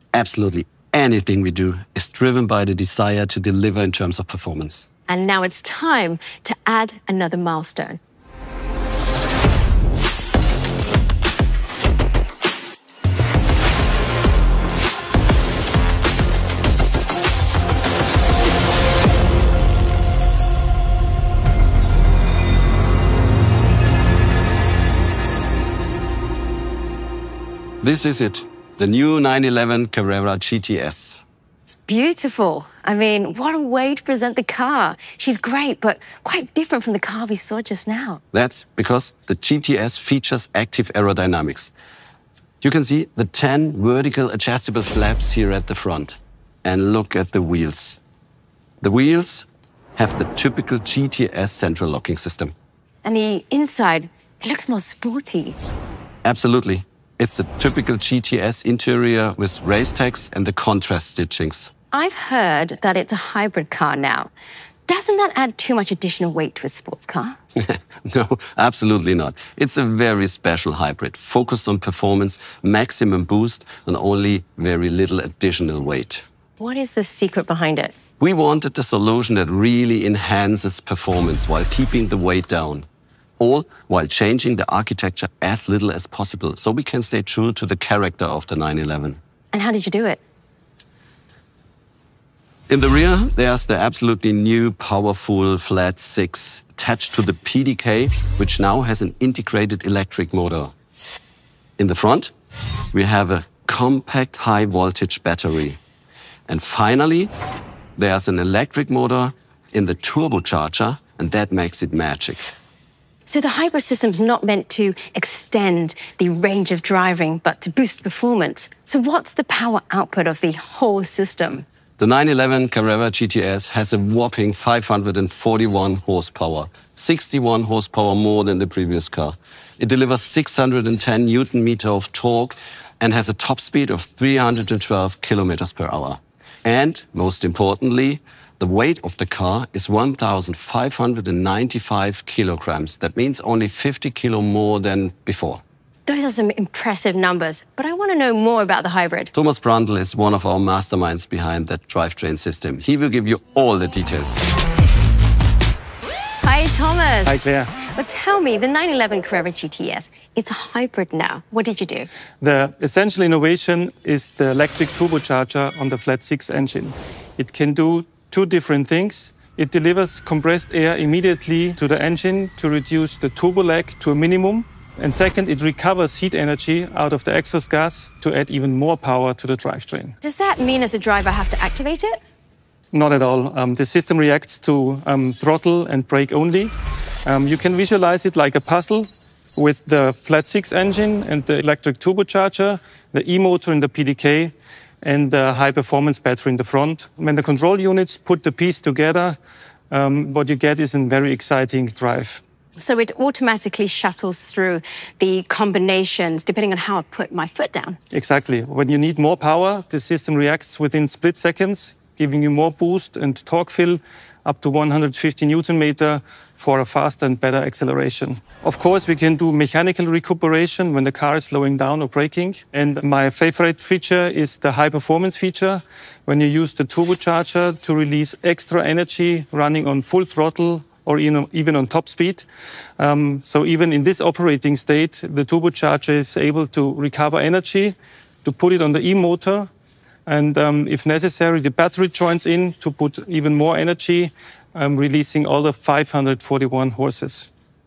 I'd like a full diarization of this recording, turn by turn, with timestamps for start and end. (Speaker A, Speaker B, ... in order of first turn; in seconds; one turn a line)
Speaker A: 0.1-4.9
Speaker B: 5.1-8.0
Speaker A: 27.8-31.2
Speaker B: 31.7-38.2
Speaker A: 38.3-41.7
Speaker A: 42.6-48.0
Speaker A: 48.8-52.5
Speaker B: 53.0-55.6
Speaker A: 56.2-61.7
Speaker B: 61.9-64.3
Speaker B: 64.9-67.4
Speaker A: 67.7-76.2
Speaker B: 76.6-77.9
Speaker A: 78.2-82.9
Speaker A: 83.4-89.2
Speaker B: 89.5-90.2
Speaker A: 92.7-100.7
Speaker A: 101.8-102.3
Speaker A: 102.9-105.8
Speaker A: 106.5-107.3
Speaker A: 108.0-112.5
Speaker B: 113.3-121.7
Speaker A: 122.0-145.6
Speaker B: 146.1-149.3
Speaker A: 149.3-154.5
Speaker B: 156.4-162.1
Speaker C: 157.3-157.7
Speaker C: 162.4-180.1
Speaker B: 180.2-182.2
Speaker C: 182.9-186.7
Speaker C: 187.2-199.4
Speaker C: 199.9-202.4
Speaker B: 202.8-208.0
Speaker C: 208.1-232.5
Speaker C: 233.0-239.7
Speaker C: 240.3-247.5